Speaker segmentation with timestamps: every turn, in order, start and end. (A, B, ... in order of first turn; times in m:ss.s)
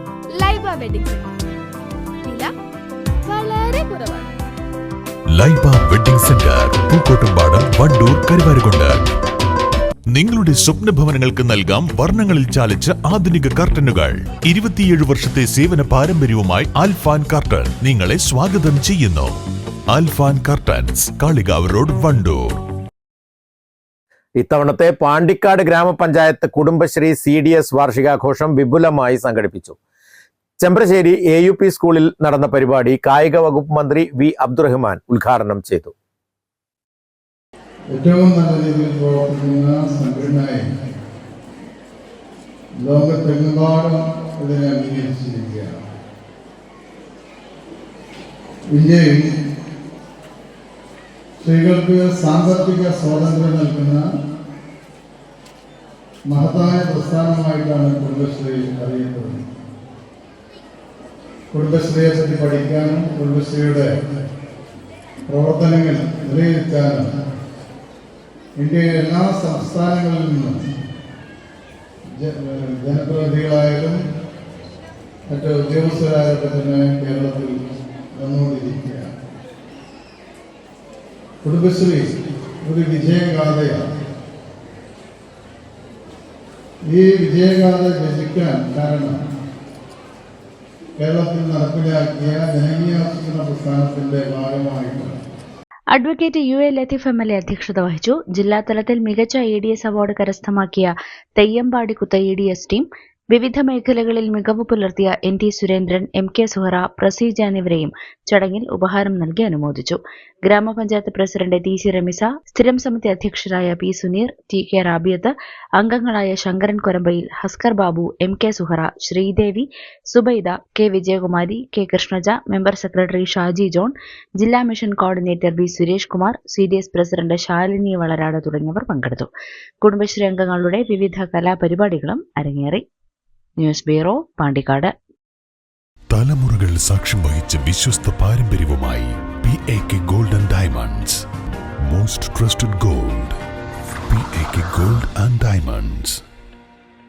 0:00.4-0:01.3 A
0:02.2-0:02.5 A
0:03.2-0:04.3 A
0:05.3-0:09.0 B
0:10.1-0:19.3 B
0:19.9-0:22.6 B
0:24.4-0:29.8 C
0:30.6-0:35.9 C
0:37.9-0:40.6 D
0:42.8-0:45.8 D
0:48.7-0:49.4 D
0:51.4-0:54.0 D
0:56.3-0:59.4 D
1:01.5-1:03.9 D
1:05.3-1:07.1 D
1:08.6-1:10.6 D
1:12.2-1:14.0 D
1:15.3-1:17.5 D
1:18.2-1:19.1 D
1:21.4-1:22.1 D
1:22.6-1:23.8 D
1:26.9-1:29.2 D
1:31.0-1:35.1 D
1:35.9-2:09.3 E
2:09.8-2:12.8 E
2:13.6-2:14.9 E
2:16.1-2:21.2 B
2:21.8-2:23.4 B
2:24.1-2:26.2 B